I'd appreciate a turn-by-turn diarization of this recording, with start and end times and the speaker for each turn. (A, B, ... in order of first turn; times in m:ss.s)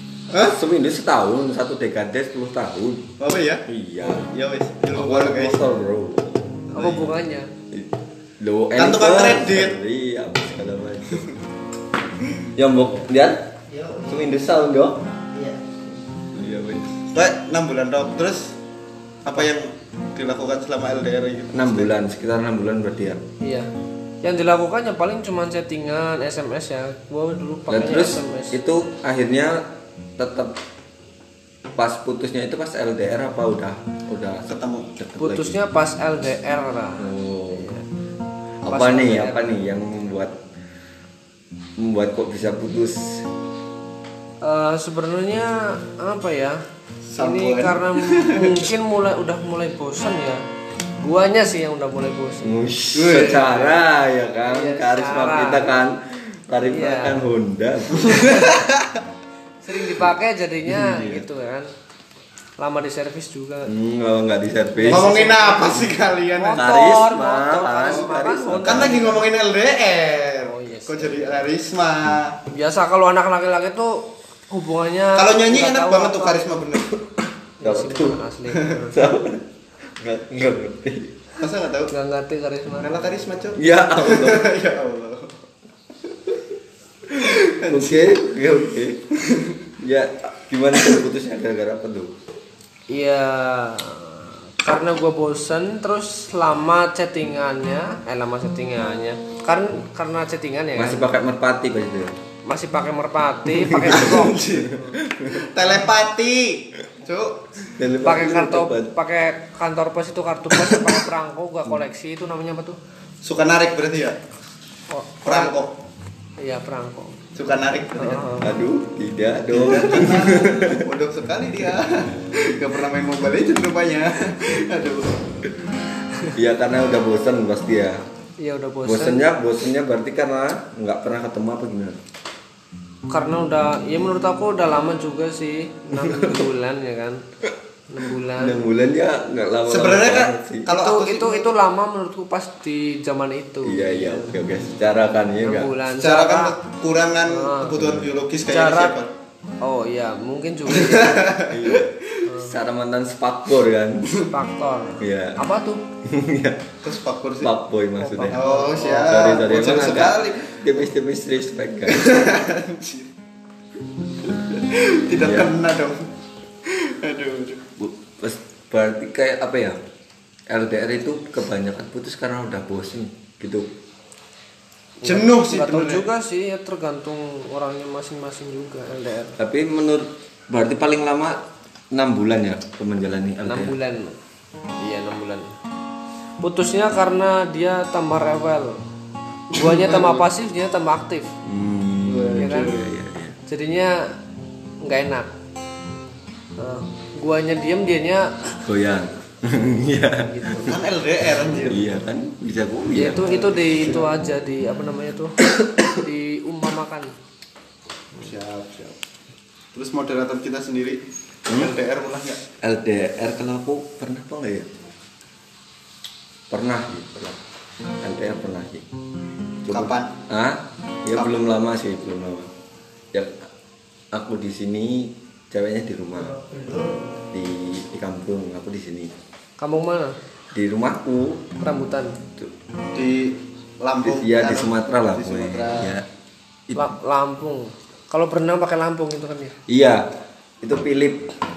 0:00.3-0:00.6 A
0:00.4-0:03.1 B
0:03.2-0:05.6 A
0:03.6-0:04.3 B
0:04.9-0:06.4 B
0:06.7-0:07.5 C
0:06.7-0:07.0 A
0:07.7-0:11.4 B
0:08.8-0:09.8 A
0:12.5-0:15.1 B
0:15.3-0:15.6 C
0:16.3-0:17.0 B
0:17.1-0:18.6 A
0:19.2-0:22.0 A
0:21.5-0:23.2 B
0:23.4-0:23.7 C
0:24.2-0:28.5 C
0:27.7-0:30.6 B
0:31.7-0:35.6 B
0:34.5-0:34.9 A
0:35.2-0:37.8 C
0:37.0-0:37.7 B
0:38.6-0:40.4 B
0:38.7-0:39.6 C
0:41.8-0:43.2 B
0:44.4-0:46.6 C
0:47.1-0:48.7 A
0:47.2-0:50.4 C
0:51.0-0:52.6 C
0:52.4-0:58.4 B
0:52.9-0:53.8 A
0:54.5-0:55.8 C
0:56.7-0:57.3 C
0:58.0-0:59.0 A
0:59.6-1:01.7 C
1:00.7-1:01.2 B
1:02.6-1:03.7 C
1:03.6-1:05.3 B
1:04.8-1:09.2 C
1:04.9-1:06.8 A
1:06.6-1:09.0 B
1:08.6-1:12.4 A
1:10.4-1:11.5 C
1:12.5-1:16.6 C
1:15.1-1:17.0 A
1:17.6-1:19.0 C
1:17.6-1:18.2 B
1:18.9-1:19.4 B
1:20.0-1:21.1 B
1:21.4-1:21.9 A
1:21.9-1:22.9 C
1:22.8-1:25.4 A
1:23.6-1:24.5 B
1:27.1-1:29.0 B
1:27.1-1:28.2 A
1:29.2-1:29.6 A
1:29.8-1:32.2 B
1:32.9-1:41.1 C
1:40.8-1:42.1 B
1:42.4-1:44.9 C
1:43.6-1:45.5 B
1:43.8-1:47.7 A
1:47.8-1:48.9 B
1:48.0-1:52.8 C
1:53.2-1:54.2 A
1:54.9-1:55.6 C
1:55.2-1:55.8 A
1:56.4-1:57.2 C
1:57.3-1:58.3 A
1:58.0-1:58.5 C
1:58.4-2:00.8 B
1:59.5-2:05.3 A
2:06.3-2:08.0 B
2:08.4-2:09.3 C
2:08.8-2:12.0 B
2:13.1-2:17.2 C
2:15.9-2:16.4 B
2:17.9-2:18.7 C
2:18.4-2:20.7 B
2:19.7-2:21.5 A
2:20.7-2:24.4 C
2:23.6-2:25.7 B
2:25.4-2:26.5 C
2:25.9-2:29.1 A
2:27.3-2:27.8 C
2:27.8-2:28.1 B
2:28.5-2:29.0 C
2:29.6-2:31.4 C
2:30.7-2:32.3 A
2:31.5-2:34.2 B
2:32.3-2:32.5 C
2:34.3-2:35.8 C
2:35.0-2:35.4 B
2:36.0-2:36.7 B
2:36.8-2:37.5 A
2:37.4-2:42.3 B
2:38.0-2:39.1 C
2:38.3-2:40.9 A
2:41.9-2:43.1 A
2:44.2-2:46.1 A
2:45.1-2:45.5 B
2:46.6-2:47.6 A
2:47.8-2:49.8 B
2:50.5-2:53.7 B
2:55.0-2:59.4 C
2:55.0-2:56.1 A
2:59.4-3:03.7 B
3:03.4-3:04.2 C
3:04.8-3:05.5 C
3:06.4-3:08.8 C
3:09.5-3:10.2 A
3:09.5-3:11.3 C
3:11.4-3:13.4 B
3:12.0-3:12.9 A
3:12.4-3:12.8 C
3:13.5-3:14.1 C
3:14.8-3:15.3 C
3:16.6-3:18.6 C
3:18.6-3:20.7 B
3:20.3-3:20.8 C
3:20.6-3:22.0 A
3:21.6-3:23.4 B
3:22.9-3:27.1 C
3:23.2-3:24.1 A
3:28.1-3:29.0 A
3:29.7-3:32.4 A
3:32.6-3:34.7 B
3:36.5-3:37.4 B
3:38.0-3:38.8 B
3:39.6-3:42.5 B
3:39.7-3:40.1 A
3:41.1-3:41.4 A
3:43.1-3:43.5 B
3:44.1-3:46.4 B
3:46.4-3:46.8 C
3:47.3-3:49.1 B
3:49.6-3:50.2 C
3:50.5-3:51.4 B
3:51.6-3:52.2 C
3:52.9-3:55.9 A
3:54.0-3:56.0 B
3:56.8-3:59.6 C
3:59.7-4:01.3 B